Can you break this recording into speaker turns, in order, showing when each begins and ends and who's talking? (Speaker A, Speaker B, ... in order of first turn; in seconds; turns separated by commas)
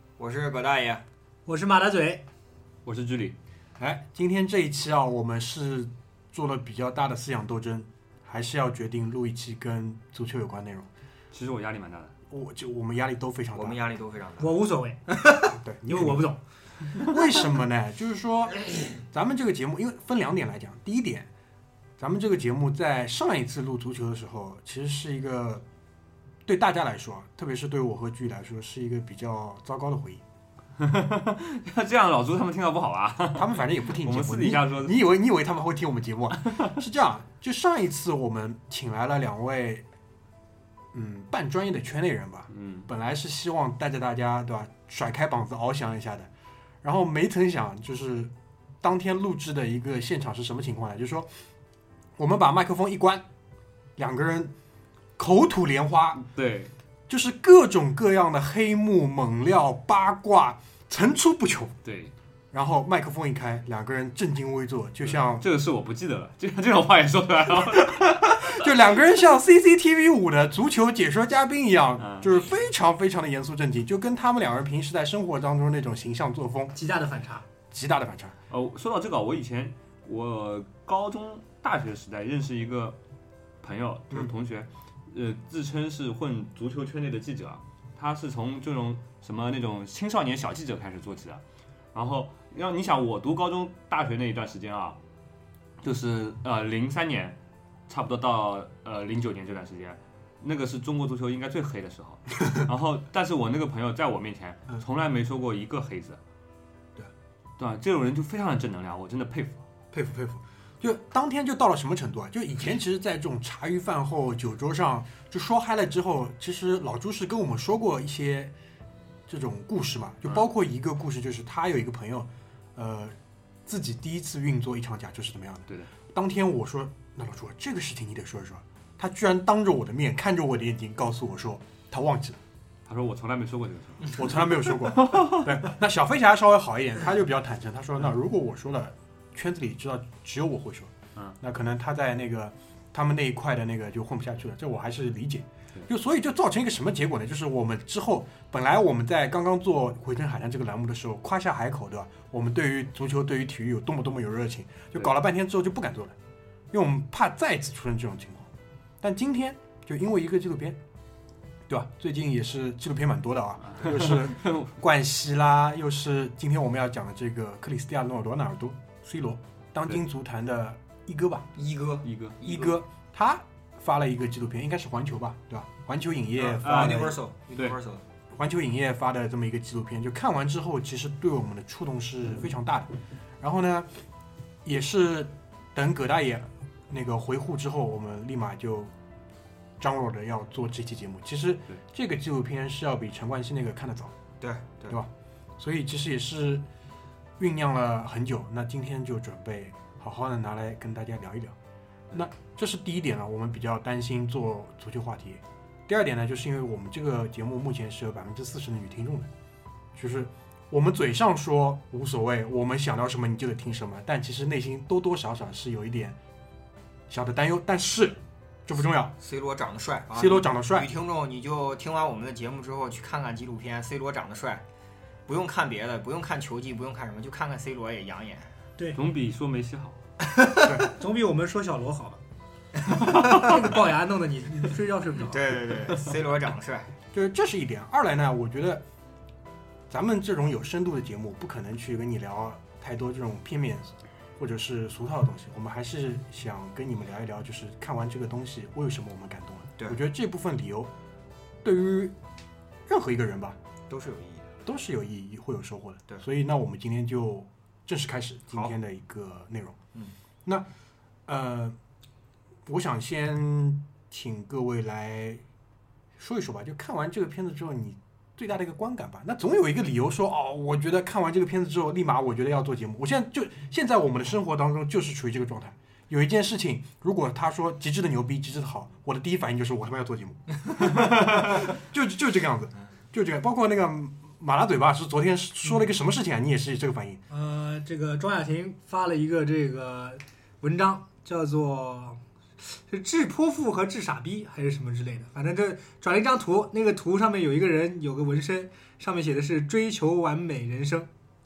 Speaker A: 0.2-1.0, Speaker B: 1.5-2.2, Speaker C: 2.9-3.4, Speaker D: 3.8-10.9, Speaker C: 11.3-12.1, Speaker D: 12.3-13.8, Speaker A: 13.5-14.6, Speaker B: 14.4-16.4, Speaker D: 15.5-16.2, Speaker D: 17.0-21.3, Speaker D: 22.0-25.6, Speaker D: 26.4-30.2, Speaker C: 30.8-35.0, Speaker D: 33.4-39.9, Speaker D: 40.9-46.3, Speaker C: 42.5-42.9, Speaker D: 46.8-51.3, Speaker D: 52.2-53.2, Speaker D: 54.0-54.5, Speaker D: 55.2-56.2, Speaker C: 56.2-56.7, Speaker D: 57.1-61.8, Speaker C: 61.9-62.1, Speaker D: 62.5-65.5, Speaker C: 65.1-68.7, Speaker D: 67.6-76.8, Speaker C: 72.0-72.5, Speaker B: 76.8-77.5, Speaker D: 77.7-78.4, Speaker C: 78.5-83.0, Speaker C: 83.6-91.4, Speaker C: 91.9-95.0, Speaker C: 95.8-97.4, Speaker C: 97.9-106.2, Speaker C: 107.6-109.6, Speaker D: 109.9-118.5, Speaker D: 119.3-132.4, Speaker C: 132.9-135.4, Speaker D: 134.2-156.2, Speaker D: 156.7-160.8, Speaker D: 161.7-171.5, Speaker C: 163.7-164.7, Speaker A: 171.6-172.8, Speaker C: 172.1-172.3, Speaker D: 172.4-177.2, Speaker A: 176.4-178.0, Speaker C: 176.6-177.8, Speaker D: 178.3-183.9, Speaker D: 184.7-188.9, Speaker D: 189.8-194.1, Speaker A: 194.4-195.0, Speaker D: 194.9-196.7, Speaker D: 197.4-201.6, Speaker D: 202.1-209.3, Speaker D: 209.9-216.2, Speaker D: 217.1-219.1, Speaker A: 219.2-224.6, Speaker D: 220.1-220.9, Speaker A: 225.3-228.5, Speaker C: 228.9-230.0, Speaker B: 230.3-232.2, Speaker B: 233.0-235.6, Speaker A: 235.3-236.9, Speaker D: 237.1-238.8, Speaker D: 239.9-250.9, Speaker D: 251.6-252.1, Speaker D: 252.9-253.6, Speaker A: 253.9-254.5, Speaker D: 254.7-259.8, Speaker D: 261.3-261.8, Speaker D: 262.7-265.4, Speaker D: 266.2-287.2, Speaker B: 287.3-301.1